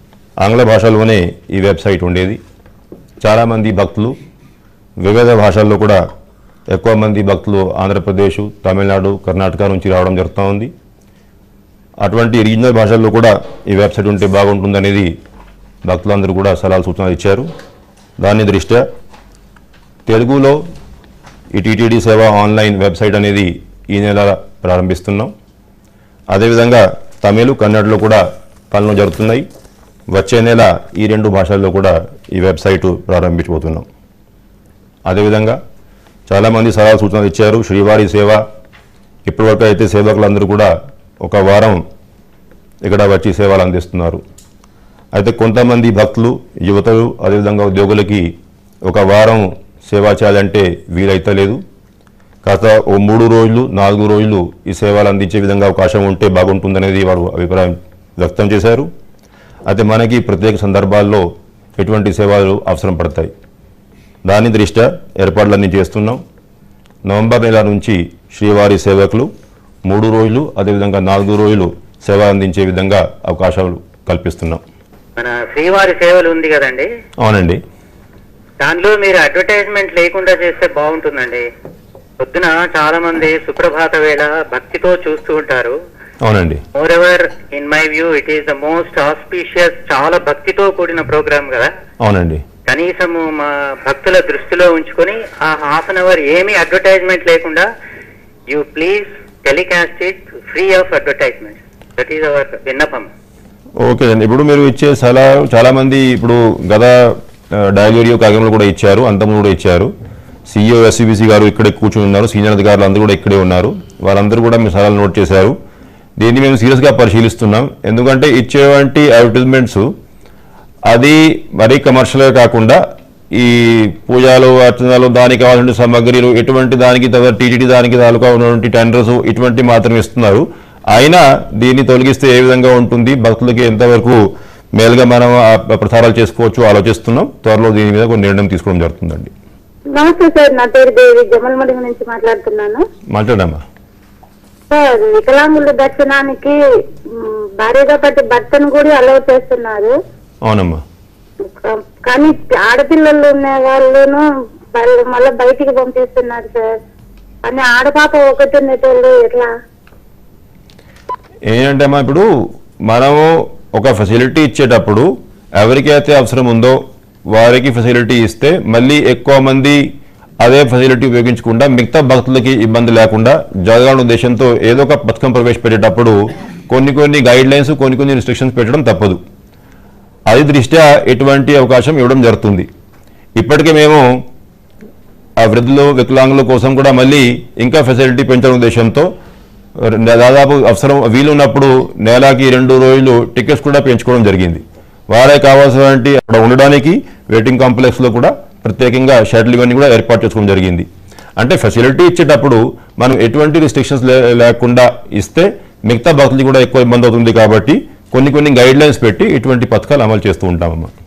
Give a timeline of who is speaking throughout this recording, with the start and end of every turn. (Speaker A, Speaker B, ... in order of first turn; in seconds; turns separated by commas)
Speaker A: 0.4-2.4, Speaker A: 3.2-4.2, Speaker A: 5.0-6.0, Speaker A: 6.7-10.7, Speaker A: 12.0-15.1, Speaker A: 15.9-17.5, Speaker A: 18.2-18.8, Speaker A: 20.1-20.6, Speaker A: 21.5-25.3, Speaker A: 26.3-29.5, Speaker A: 30.1-33.9, Speaker A: 35.1-35.6, Speaker A: 36.3-38.4, Speaker A: 39.3-40.7, Speaker A: 41.2-41.8, Speaker A: 42.8-44.2, Speaker A: 45.1-48.3, Speaker A: 48.9-51.6, Speaker A: 52.5-58.9, Speaker A: 59.7-63.3, Speaker A: 64.3-66.2, Speaker A: 67.1-69.3, Speaker A: 69.9-74.6, Speaker B: 75.2-76.9, Speaker A: 77.2-77.6, Speaker B: 78.6-81.5, Speaker B: 82.2-85.8, Speaker A: 86.2-86.6, Speaker B: 86.8-91.7, Speaker A: 92.0-92.4, Speaker B: 92.7-97.7, Speaker B: 98.5-103.1, Speaker A: 103.8-109.9, Speaker A: 110.5-115.6, Speaker A: 116.2-119.9, Speaker A: 120.9-122.8, Speaker A: 123.3-134.2, Speaker A: 134.8-139.3, Speaker C: 139.9-142.8, Speaker A: 143.1-143.6, Speaker C: 144.7-146.6, Speaker C: 147.2-149.9, Speaker A: 150.4-150.8, Speaker C: 151.5-154.2, Speaker C: 154.7-156.8, Speaker C: 157.4-159.5, Speaker A: 161.5-162.3, Speaker A: 162.9-166.8, Speaker A: 167.3-169.9, Speaker A: 170.4-176.2, Speaker A: 176.7-179.2, Speaker A: 180.3-182.7, Speaker A: 183.4-184.2, Speaker A: 185.4-189.1, Speaker A: 189.8-200.9, Speaker A: 201.4-210.9